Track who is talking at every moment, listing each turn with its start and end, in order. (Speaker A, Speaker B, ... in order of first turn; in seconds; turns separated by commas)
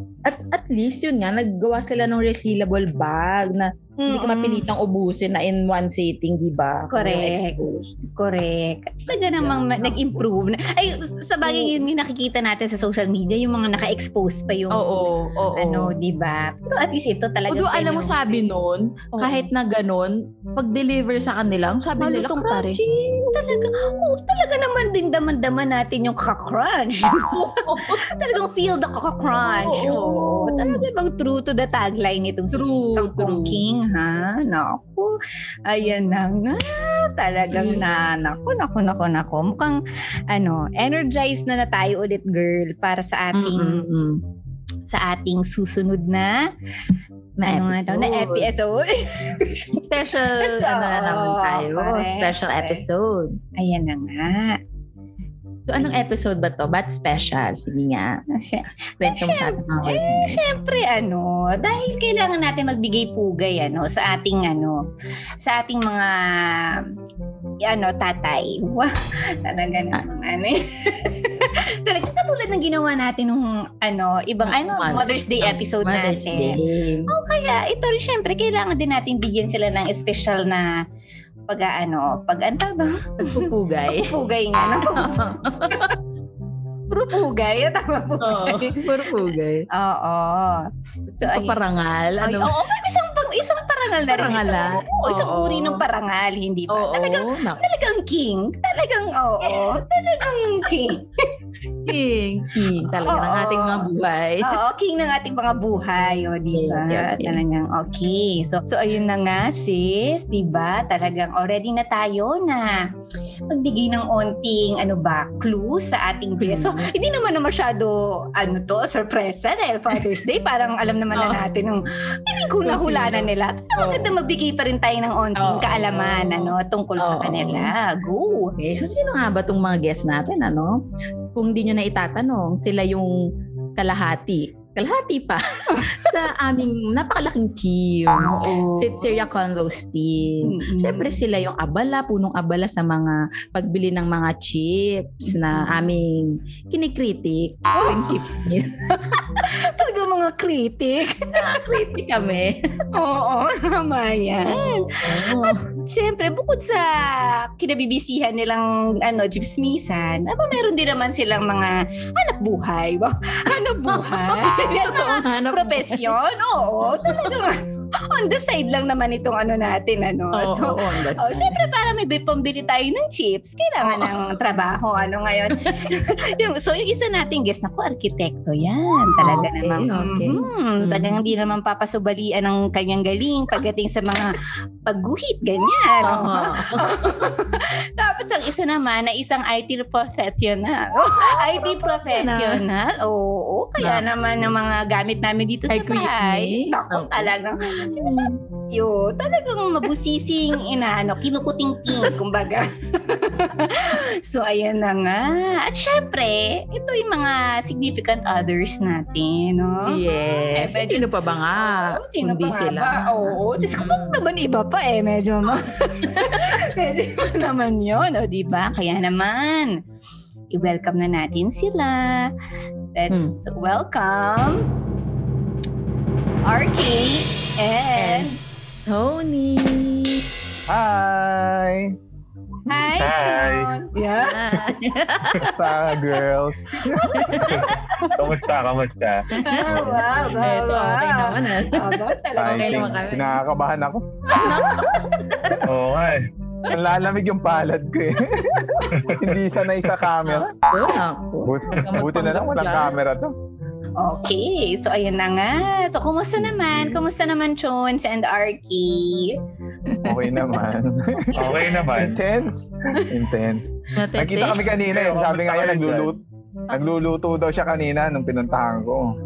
Speaker A: 0.2-7.9, Speaker B: 4.0-4.7, Speaker B: 6.9-14.8, Speaker A: 9.2-10.1, Speaker A: 11.4-11.8, Speaker A: 14.7-15.9, Speaker B: 15.6-18.4, Speaker A: 17.5-23.8, Speaker B: 19.1-19.5, Speaker B: 22.0-22.8, Speaker B: 23.3-35.1, Speaker A: 27.3-28.1, Speaker A: 29.4-30.9, Speaker A: 32.5-33.6, Speaker B: 35.7-39.8, Speaker A: 37.5-37.9, Speaker B: 40.3-43.9, Speaker A: 43.3-44.2, Speaker B: 44.9-46.4, Speaker A: 47.4-48.5, Speaker B: 47.5-52.8, Speaker A: 49.7-53.4, Speaker B: 53.6-54.6, Speaker A: 55.7-58.2, Speaker B: 58.3-64.8, Speaker A: 59.0-60.4, Speaker B: 65.4-66.8, Speaker B: 67.6-80.7, Speaker A: 74.5-77.1, Speaker B: 81.5-85.9, Speaker A: 83.2-84.2, Speaker A: 84.9-86.0, Speaker B: 86.9-89.2, Speaker A: 88.2-89.7, Speaker B: 89.7-91.6, Speaker A: 91.2-92.5, Speaker B: 92.2-101.2, Speaker A: 94.0-95.8, Speaker A: 96.7-97.6, Speaker A: 99.5-99.8, Speaker A: 101.8-104.6, Speaker B: 103.0-103.9, Speaker B: 104.4-112.9, Speaker A: 106.5-107.4, Speaker B: 113.5-128.6, Speaker A: 116.4-116.9, Speaker A: 121.1-121.4, Speaker A: 122.6-124.2, Speaker A: 125.4-127.7, Speaker A: 128.6-130.8, Speaker A: 131.3-133.2, Speaker A: 133.8-148.8, Speaker B: 138.2-139.2, Speaker B: 140.4-141.2, Speaker B: 145.3-145.8, Speaker B: 147.7-148.2, Speaker B: 148.9-151.6, Speaker A: 151.4-152.7, Speaker B: 152.9-210.0, Speaker A: 154.5-155.7, Speaker A: 163.9-166.2, Speaker A: 167.1-167.4, Speaker A: 170.3-171.6, Speaker A: 173.8-174.1, Speaker A: 175.6-176.1, Speaker A: 179.2-181.2, Speaker A: 186.0-187.0, Speaker A: 191.1-192.7, Speaker A: 193.8-194.1, Speaker A: 195.7-198.4, Speaker A: 209.9-214.2, Speaker B: 210.5-219.8, Speaker A: 216.1-216.6, Speaker B: 220.5-222.3, Speaker B: 222.9-224.7, Speaker B: 226.4-228.4, Speaker A: 228.0-228.3, Speaker A: 228.9-230.3, Speaker C: 230.7-231.9, Speaker B: 232.7-234.5, Speaker D: 233.0-233.7, Speaker A: 234.1-236.0, Speaker C: 235.4-237.6, Speaker A: 236.8-238.2, Speaker D: 237.5-239.3, Speaker A: 239.3-243.4, Speaker B: 239.4-243.2, Speaker C: 239.7-240.1, Speaker C: 242.4-244.1, Speaker B: 244.3-245.2, Speaker A: 244.3-245.7, Speaker D: 245.6-246.3, Speaker C: 246.7-250.5, Speaker D: 248.9-249.4, Speaker A: 250.6-252.9, Speaker C: 251.4-253.3, Speaker B: 254.0-259.4, Speaker C: 256.4-257.0, Speaker C: 260.0-269.1, Speaker B: 261.4-261.8, Speaker D: 261.4-262.2, Speaker A: 263.9-264.6, Speaker D: 264.8-266.1